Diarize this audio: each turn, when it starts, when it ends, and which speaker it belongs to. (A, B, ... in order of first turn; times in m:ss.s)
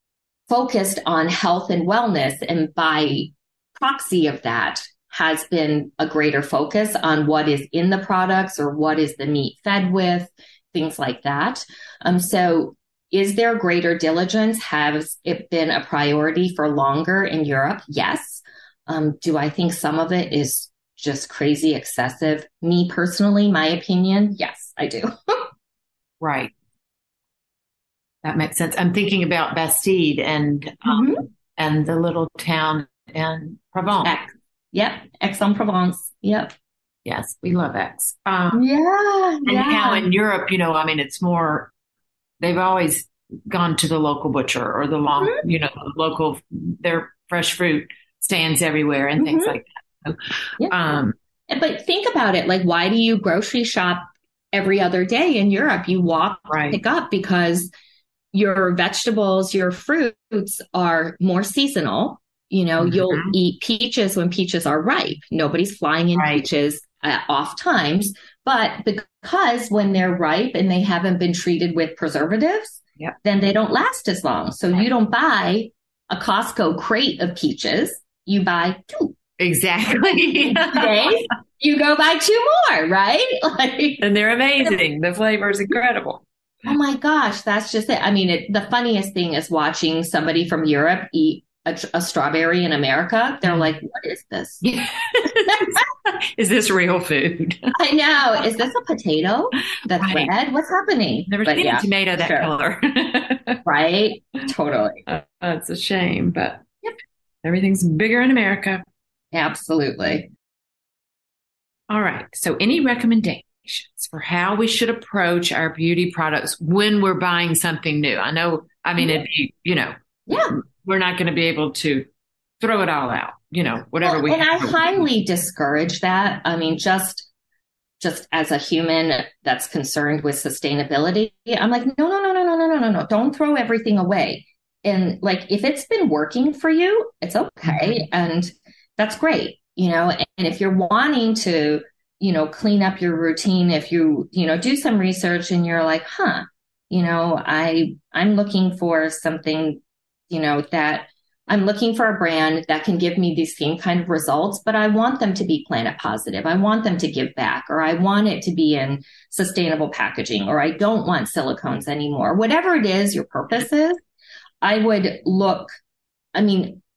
0:00.5-0:25.4 A
0:26.2-0:26.5 B
0:28.2-0:34.1 B
0:30.8-0:31.2 A
0:34.0-0:36.5 A
0:37.0-0:38.6 B
0:38.5-0:40.1 A
0:39.4-0:41.7 B
0:42.4-0:51.1 B
0:49.2-0:49.6 A
0:51.5-0:57.7 A
0:56.5-0:56.8 B
0:58.3-1:19.2 A
1:02.8-1:03.3 B
1:06.2-1:06.4 B
1:19.4-1:21.1 B
1:20.5-1:24.0 A
1:24.0-1:26.2 B
1:26.6-1:34.6 A
1:33.4-1:33.7 B
1:34.6-1:37.7 B
1:37.7-1:42.5 A
1:40.0-1:40.3 B
1:41.3-1:43.6 B
1:43.6-1:45.0 A
1:45.1-1:46.6 B
1:47.4-1:48.8 B
1:49.3-1:50.3 A
1:51.9-2:02.1 B
2:00.3-2:00.6 A
2:02.6-2:04.9 B
2:04.0-2:07.3 A
2:08.0-2:44.0 A
2:17.6-2:18.0 B
2:44.6-2:45.7 A
2:46.4-2:46.8 A